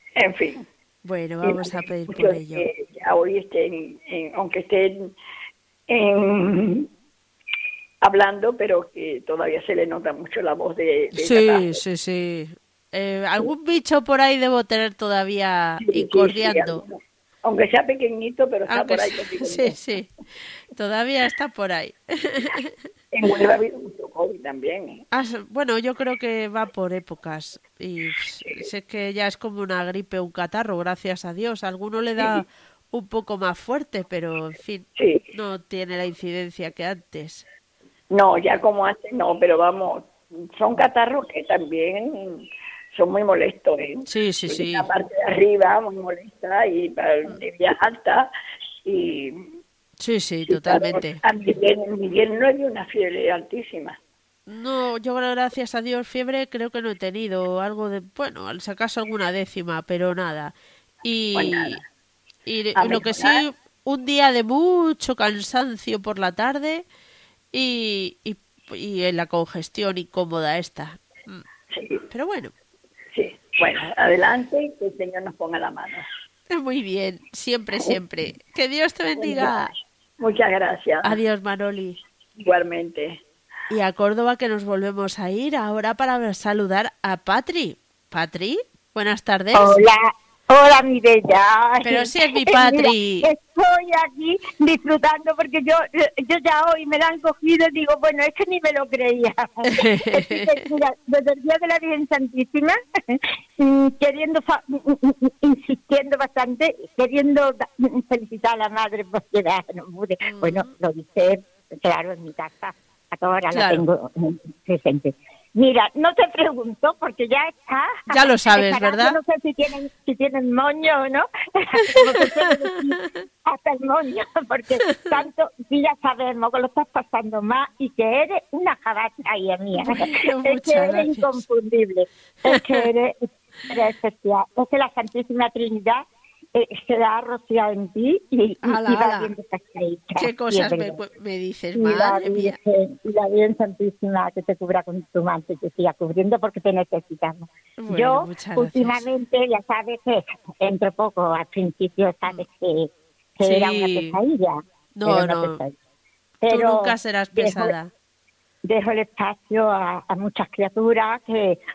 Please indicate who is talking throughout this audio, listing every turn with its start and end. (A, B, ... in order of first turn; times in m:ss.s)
0:00.2-0:00.6 A
0:01.0-0:02.6 B
0:01.4-0:05.1 A
0:05.9-0:06.9 A
0:08.0-0:11.8 A
0:11.1-0:16.8 B
0:15.8-0:19.8 A
0:18.7-0:22.8 B
0:23.1-0:25.0 A
0:25.1-0:37.4 B
0:28.4-0:28.6 A
0:32.2-0:32.4 A
0:35.0-0:35.2 A
0:38.1-0:48.3 A
0:44.1-0:44.9 B
0:48.8-0:49.5 A
0:50.0-0:51.2 B
0:50.5-0:54.0 A
0:54.5-1:01.8 B
1:01.4-1:01.8 A
1:02.4-1:06.8 B
1:02.8-1:03.4 A
1:07.5-1:11.4 B
1:11.7-1:12.0 A
1:12.1-1:12.5 B
1:13.1-1:16.1 A
1:16.5-1:19.7 B
1:19.2-1:19.6 A
1:20.2-1:21.2 A
1:21.0-1:22.0 B
1:22.4-1:23.2 A
1:23.7-1:29.8 B
1:29.5-2:16.0 C
1:31.8-1:33.3 B
1:39.7-1:40.6 B
1:50.3-1:50.7 B
1:53.5-1:53.8 B
1:58.1-1:59.2 B
2:01.9-2:02.2 B
2:04.9-2:05.2 B
2:09.8-2:11.4 B
2:12.5-2:12.9 B
2:16.6-2:21.0 C
2:18.6-2:19.3 B
2:20.2-2:22.6 B
2:21.8-2:35.8 C
2:27.8-2:29.0 B
2:33.4-2:34.2 B
2:34.9-2:35.6 B
2:36.4-2:37.7 C
2:36.5-2:37.9 B
2:38.6-2:41.6 C